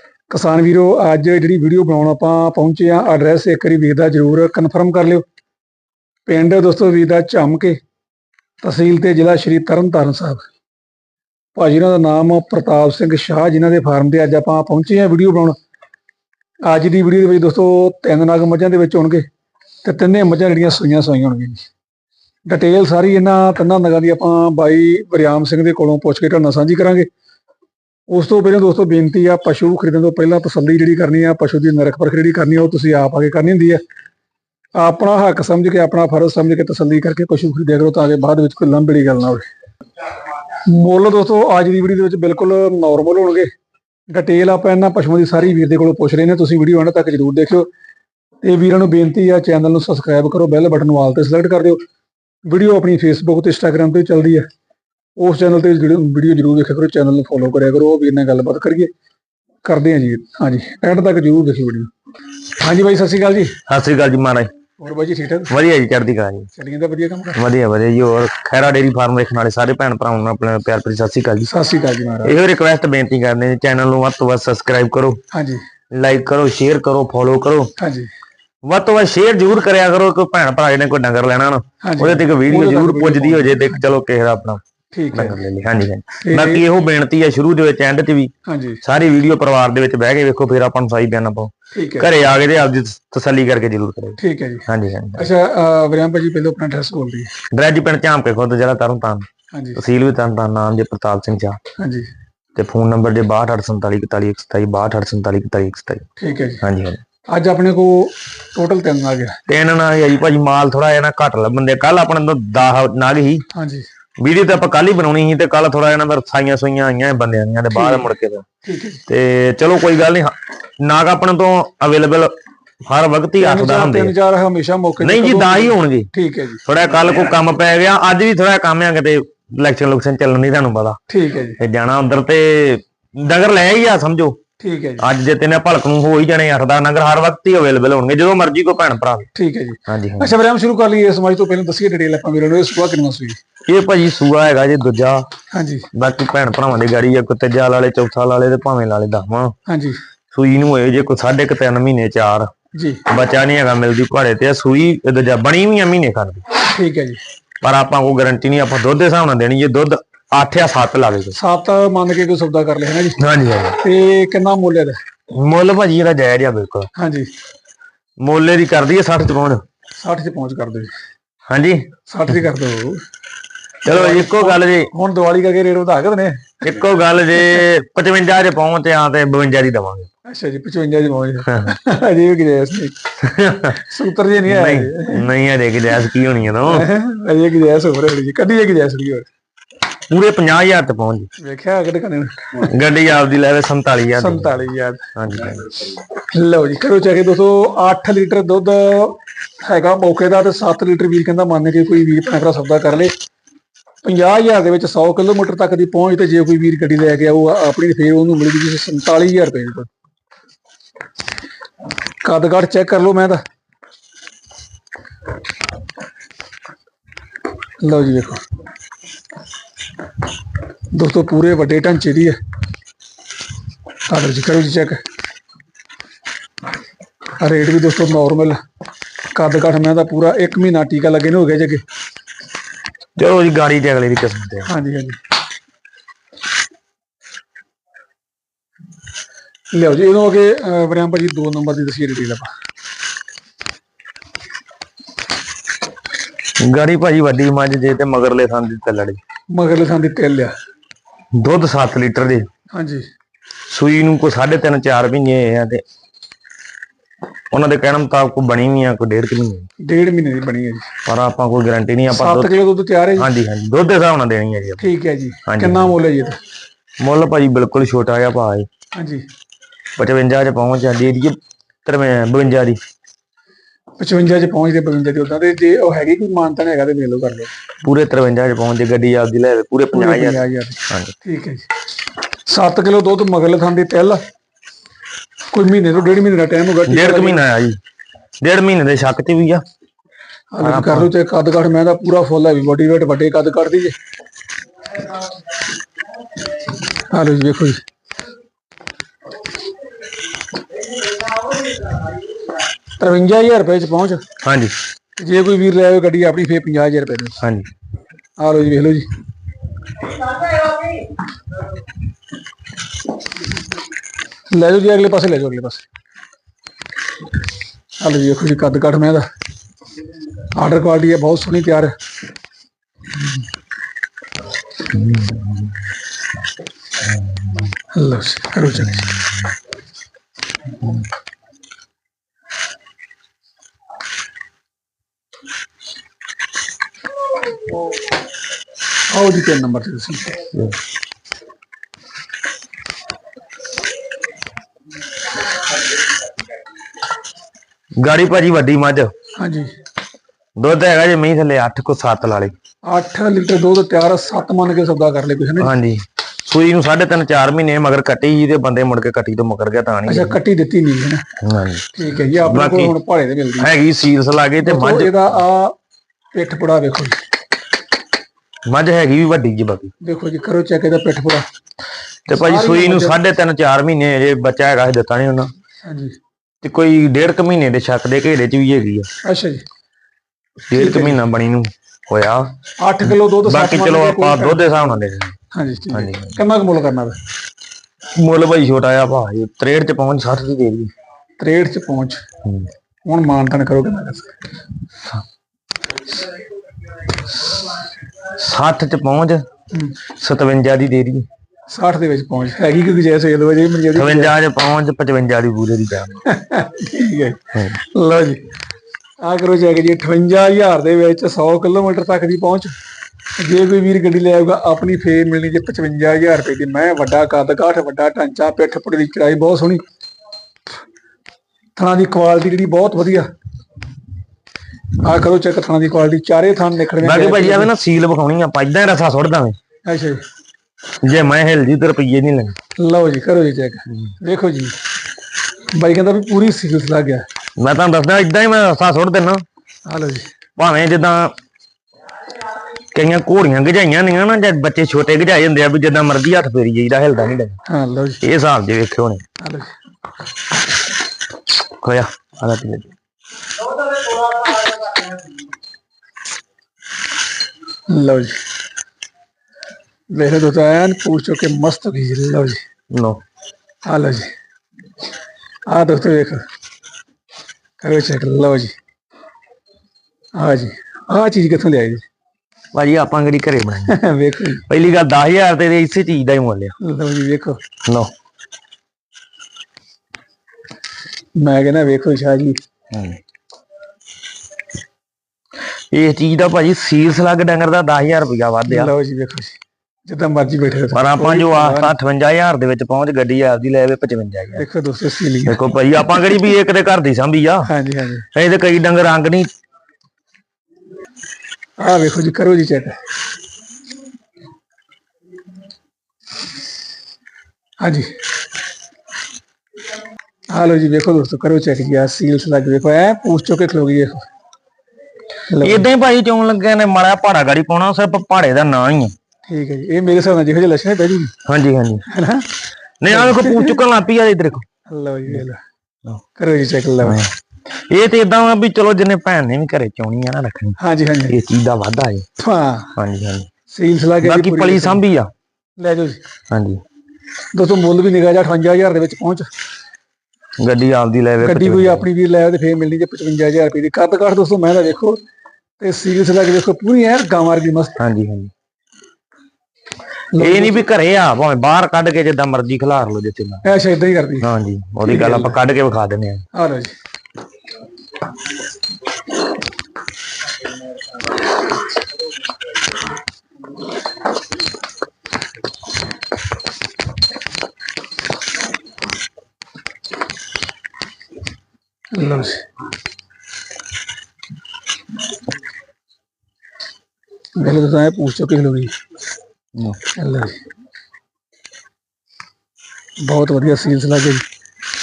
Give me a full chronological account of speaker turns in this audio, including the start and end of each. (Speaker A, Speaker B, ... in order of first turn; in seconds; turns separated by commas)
Speaker A: 0.3-5.2, Speaker A: 6.3-7.8, Speaker A: 8.6-10.5, Speaker A: 11.6-15.6, Speaker A: 16.7-19.3, Speaker A: 19.9-21.6, Speaker A: 22.5-27.1, Speaker A: 28.1-33.8, Speaker A: 34.8-39.5, Speaker A: 40.5-43.5, Speaker A: 44.1-47.7, Speaker A: 48.4-51.8, Speaker A: 52.5-54.5, Speaker A: 55.2-58.9, Speaker A: 59.6-61.9, Speaker A: 62.6-63.6, Speaker B: 63.7-64.5, Speaker A: 64.8-65.5, Speaker B: 65.5-66.5, Speaker A: 66.5-67.4, Speaker B: 67.4-71.5, Speaker A: 71.5-72.3, Speaker B: 72.2-75.2, Speaker A: 75.3-75.6, Speaker B: 75.9-77.7, Speaker A: 77.8-78.1, Speaker B: 78.7-84.6, Speaker A: 81.8-83.8, Speaker A: 84.9-85.4, Speaker B: 85.1-88.3, Speaker A: 86.2-86.7, Speaker A: 88.5-88.8, Speaker B: 88.8-95.3, Speaker A: 91.7-92.1, Speaker A: 94.2-97.3, Speaker B: 97.5-101.6, Speaker A: 99.5-99.8, Speaker A: 101.8-102.1, Speaker B: 102.6-106.0, Speaker A: 106.2-106.6, Speaker B: 106.6-107.0, Speaker A: 107.3-109.4, Speaker B: 109.5-113.5, Speaker A: 113.5-113.9, Speaker B: 114.2-118.5, Speaker A: 117.7-118.1, Speaker A: 118.6-119.0, Speaker B: 119.1-122.3, Speaker B: 122.8-124.2, Speaker A: 123.4-126.6, Speaker B: 125.0-126.1, Speaker B: 126.7-131.0, Speaker A: 131.1-131.6, Speaker B: 131.6-134.4, Speaker A: 134.6-135.1, Speaker B: 135.0-139.3, Speaker A: 139.3-143.4, Speaker B: 139.9-140.3, Speaker B: 143.7-145.3, Speaker A: 145.5-145.9, Speaker B: 145.9-149.5, Speaker A: 149.7-150.0, Speaker B: 150.3-152.5, Speaker A: 152.7-153.0, Speaker B: 153.1-156.4, Speaker A: 156.6-157.2, Speaker B: 157.6-161.4, Speaker A: 161.3-163.2, Speaker B: 163.2-163.8, Speaker A: 163.8-165.0, Speaker B: 165.3-166.9, Speaker A: 166.9-167.3, Speaker B: 168.2-169.6, Speaker A: 170.0-170.9, Speaker B: 171.5-171.9, Speaker A: 172.1-173.0, Speaker B: 173.8-174.9, Speaker A: 173.9-176.6, Speaker B: 176.6-180.1, Speaker A: 180.3-183.1, Speaker B: 181.5-181.8, Speaker B: 183.2-183.8, Speaker A: 183.6-185.3, Speaker B: 184.5-186.9, Speaker A: 186.7-189.3, Speaker B: 190.1-191.3, Speaker A: 191.4-192.7, Speaker B: 192.6-194.6, Speaker A: 194.2-195.1, Speaker B: 195.2-195.9, Speaker A: 196.2-203.1, Speaker A: 204.0-209.9, Speaker A: 212.2-213.4, Speaker A: 217.8-218.4, Speaker A: 220.9-222.4, Speaker A: 224.1-225.0, Speaker A: 227.4-228.6, Speaker A: 229.3-231.8, Speaker B: 233.2-234.7, Speaker A: 234.7-235.2, Speaker A: 239.7-242.5, Speaker B: 246.6-249.2, Speaker A: 249.5-250.5, Speaker B: 251.3-252.5, Speaker A: 252.7-253.1, Speaker B: 253.7-255.8, Speaker B: 257.5-259.7, Speaker A: 259.8-260.9, Speaker B: 261.1-262.6, Speaker A: 262.1-263.3, Speaker B: 263.2-264.9, Speaker A: 264.8-266.4, Speaker B: 265.5-265.9, Speaker B: 267.0-268.7, Speaker A: 268.9-269.2, Speaker B: 270.0-272.8, Speaker A: 274.0-277.5, Speaker B: 277.8-281.1, Speaker A: 279.9-281.7, Speaker A: 282.5-284.2, Speaker A: 285.5-287.4, Speaker B: 286.9-287.8, Speaker B: 288.4-289.6, Speaker A: 290.5-293.9, Speaker B: 290.6-291.1, Speaker A: 297.1-297.8, Speaker A: 303.0-304.2, Speaker B: 304.4-304.8, Speaker A: 305.2-307.4, Speaker B: 307.4-307.7, Speaker A: 308.4-309.1, Speaker A: 314.5-315.9, Speaker A: 318.0-319.2, Speaker A: 320.6-321.9, Speaker B: 324.9-325.8, Speaker B: 327.2-327.7, Speaker A: 327.9-329.1, Speaker B: 328.8-329.5, Speaker A: 339.1-340.4, Speaker B: 348.0-349.1, Speaker A: 349.4-349.7, Speaker B: 350.6-352.5, Speaker A: 352.9-355.7, Speaker B: 355.6-360.4, Speaker A: 360.1-361.2, Speaker B: 361.4-362.9, Speaker A: 361.9-363.7, Speaker B: 363.6-365.4, Speaker A: 364.6-365.8, Speaker A: 366.3-367.2, Speaker B: 368.7-369.9, Speaker A: 370.0-371.5, Speaker B: 372.3-375.5, Speaker A: 372.3-373.2, Speaker A: 375.8-376.2, Speaker B: 376.6-379.1, Speaker A: 379.2-379.6, Speaker B: 380.7-382.5, Speaker A: 380.7-381.2, Speaker A: 382.8-384.6, Speaker B: 383.0-385.4, Speaker A: 385.5-387.2, Speaker B: 385.9-386.4, Speaker B: 388.1-390.9, Speaker A: 391.4-392.2, Speaker B: 392.4-392.7, Speaker A: 393.1-394.4, Speaker B: 398.2-399.4, Speaker A: 399.7-400.0, Speaker B: 400.2-401.3, Speaker A: 401.7-404.3, Speaker B: 403.9-406.2, Speaker A: 406.3-408.4, Speaker A: 409.2-412.7, Speaker A: 413.4-419.8, Speaker A: 421.8-423.3, Speaker A: 425.0-427.7, Speaker B: 427.0-429.6, Speaker A: 429.9-430.2, Speaker B: 431.0-432.6, Speaker A: 432.8-434.8, Speaker A: 435.8-437.2, Speaker B: 437.6-439.4, Speaker A: 439.9-440.3, Speaker B: 440.6-441.3, Speaker B: 442.8-447.6, Speaker A: 447.7-448.2, Speaker B: 448.2-449.2, Speaker A: 449.4-449.7, Speaker B: 451.8-452.9, Speaker A: 457.9-458.4, Speaker A: 460.1-462.6, Speaker B: 462.9-463.2, Speaker A: 463.9-464.3, Speaker A: 465.7-466.4, Speaker A: 467.8-468.8, Speaker A: 470.4-472.0, Speaker B: 472.7-474.0, Speaker A: 473.9-474.6, Speaker B: 474.7-476.8, Speaker A: 476.8-477.6, Speaker B: 477.9-478.1, Speaker A: 481.4-482.6, Speaker B: 482.9-483.2, Speaker B: 485.9-488.9, Speaker A: 488.7-489.6, Speaker A: 490.1-491.9, Speaker B: 490.9-494.6, Speaker A: 494.6-495.6, Speaker B: 495.5-497.7, Speaker A: 496.1-496.4, Speaker A: 497.7-498.3, Speaker B: 498.3-499.5, Speaker A: 501.8-503.0, Speaker A: 507.8-508.1, Speaker A: 510.5-514.3, Speaker A: 515.5-515.9, Speaker B: 515.6-519.1, Speaker A: 519.5-521.3, Speaker B: 521.5-522.0, Speaker A: 522.1-522.5, Speaker B: 523.0-524.6, Speaker A: 523.1-523.8, Speaker A: 524.9-525.6, Speaker A: 526.4-527.2, Speaker B: 527.0-530.8, Speaker A: 530.8-531.4, Speaker B: 531.3-532.3, Speaker A: 532.4-533.0, Speaker B: 533.0-533.5, Speaker A: 533.7-535.0, Speaker B: 534.2-535.3, Speaker A: 535.8-536.2, Speaker B: 536.5-536.8, Speaker A: 537.5-539.5, Speaker B: 540.6-542.1, Speaker A: 541.4-545.2, Speaker A: 545.8-548.0, Speaker B: 548.0-548.5, Speaker A: 550.3-550.8, Speaker B: 550.4-553.6, Speaker A: 553.6-554.5, Speaker B: 554.4-556.5, Speaker A: 555.1-555.5, Speaker A: 556.5-557.0, Speaker A: 572.1-572.6, Speaker A: 577.6-578.9, Speaker A: 580.1-580.6, Speaker A: 583.2-584.5